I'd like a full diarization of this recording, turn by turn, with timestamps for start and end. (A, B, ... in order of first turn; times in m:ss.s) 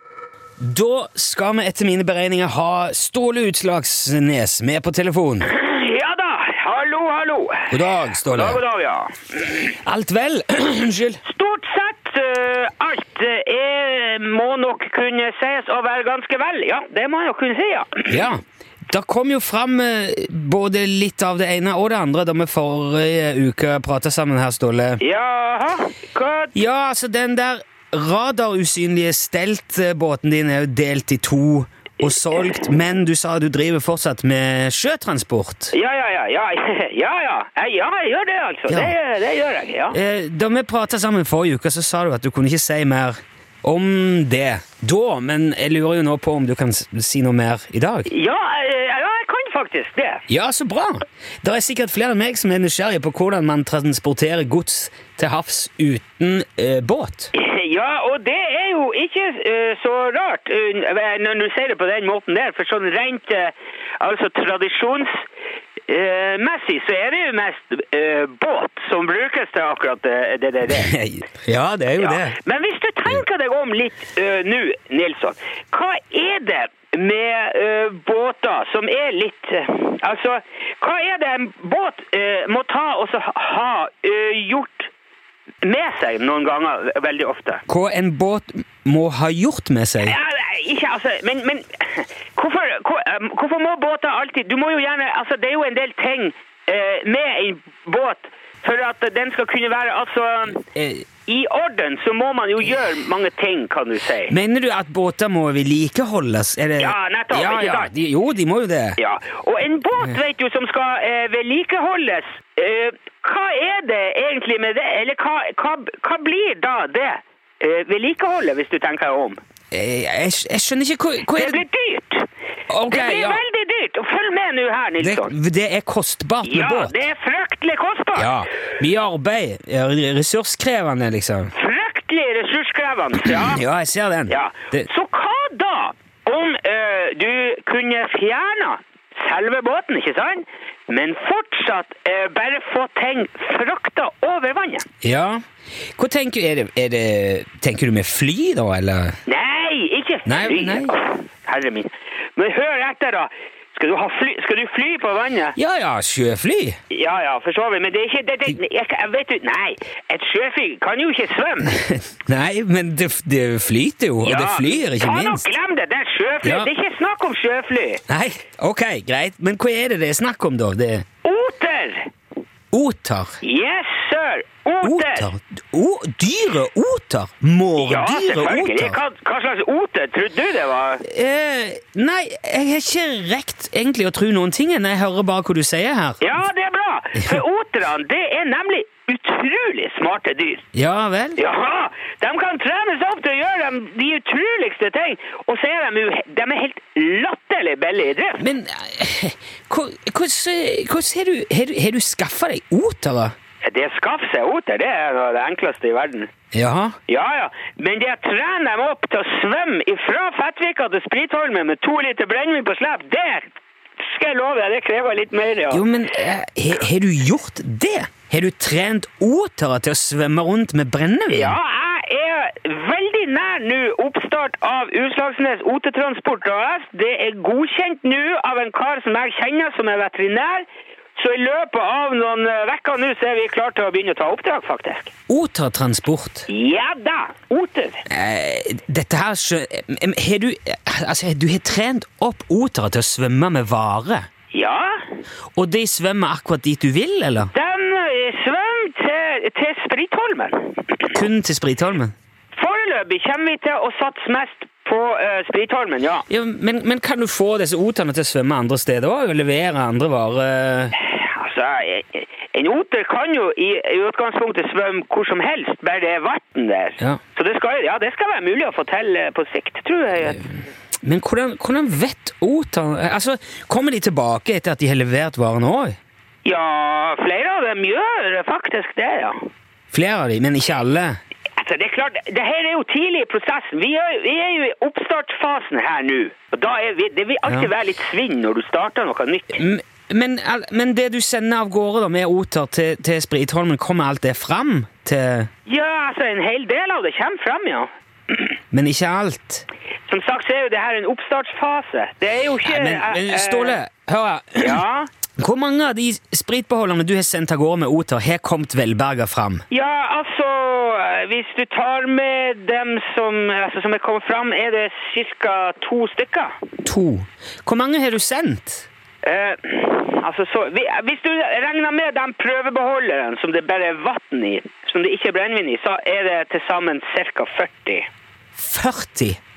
0:00.6-0:05.5 A
0:05.4-0:09.5 B
0:07.7-0:08.6 A
0:09.5-0:11.2 A
0:11.2-0:18.2 B
0:18.1-0:25.0 A
0:25.0-0:26.6 B
0:26.6-0:35.7 A
0:35.7-0:40.0 B
0:38.7-0:39.0 A
0:39.9-0:48.1 A
0:48.1-0:50.2 B
0:50.3-0:57.3 A
0:57.3-1:05.2 B
1:05.9-1:10.9 B
1:10.7-1:12.4 A
1:12.0-1:24.9 B
1:25.6-1:27.6 B
1:27.7-1:30.2 A
1:30.0-1:40.7 B
1:40.8-1:41.0 A
1:41.3-1:44.4 B
1:44.3-1:49.0 A
1:46.8-1:47.9 B
1:49.0-1:59.4 B
1:59.7-2:01.6 A
2:01.4-2:02.3 B
2:02.7-2:03.4 A
2:02.9-2:05.3 B
2:05.0-2:07.0 A
2:06.4-2:08.4 B
2:08.2-2:11.5 A
2:11.5-2:13.6 B
2:13.3-2:14.9 A
2:14.3-2:24.9 B
2:25.0-2:25.4 A
2:26.0-2:29.2 A
2:29.3-2:35.6 B
2:30.3-2:31.0 A
2:35.6-2:36.8 A
2:36.9-2:41.8 B
2:41.7-2:45.5 A
2:44.2-2:48.0 B
2:46.4-2:46.7 A
2:48.1-2:51.0 A
2:51.2-2:52.1 B
2:52.7-2:53.4 A
2:53.4-2:55.3 B
2:54.8-2:59.0 A
2:57.8-3:01.1 B
3:01.0-3:06.2 A
3:06.2-3:10.7 B
3:07.2-3:07.4 A
3:10.7-3:11.4 A
3:11.4-3:18.5 B
3:18.4-3:23.3 A
3:23.6-3:26.3 B
3:26.5-3:27.0 A
3:27.1-3:35.9 B
3:35.7-3:41.6 A
3:41.3-3:55.1 B
3:55.3-3:56.5 A
3:56.5-3:58.0 B
3:58.1-4:04.3 A
4:04.5-4:05.0 B
4:05.6-4:07.5 A
4:07.5-4:11.2 B
4:11.1-4:12.1 A
4:12.5-4:16.3 B
4:16.3-4:21.0 A
4:20.9-4:30.6 B
4:31.0-4:36.0 A
4:36.4-4:39.5 B
4:39.9-4:41.2 A
4:41.6-4:49.6 B
4:49.5-4:55.5 A
4:55.7-4:58.5 B
4:58.7-4:59.7 A
5:00.1-5:03.8 B
5:02.6-5:04.8 A
5:04.6-5:05.1 B
5:05.4-5:09.6 A
5:09.7-5:16.5 B
5:16.8-5:18.9 A
5:19.2-5:28.1 B
5:28.6-5:29.4 A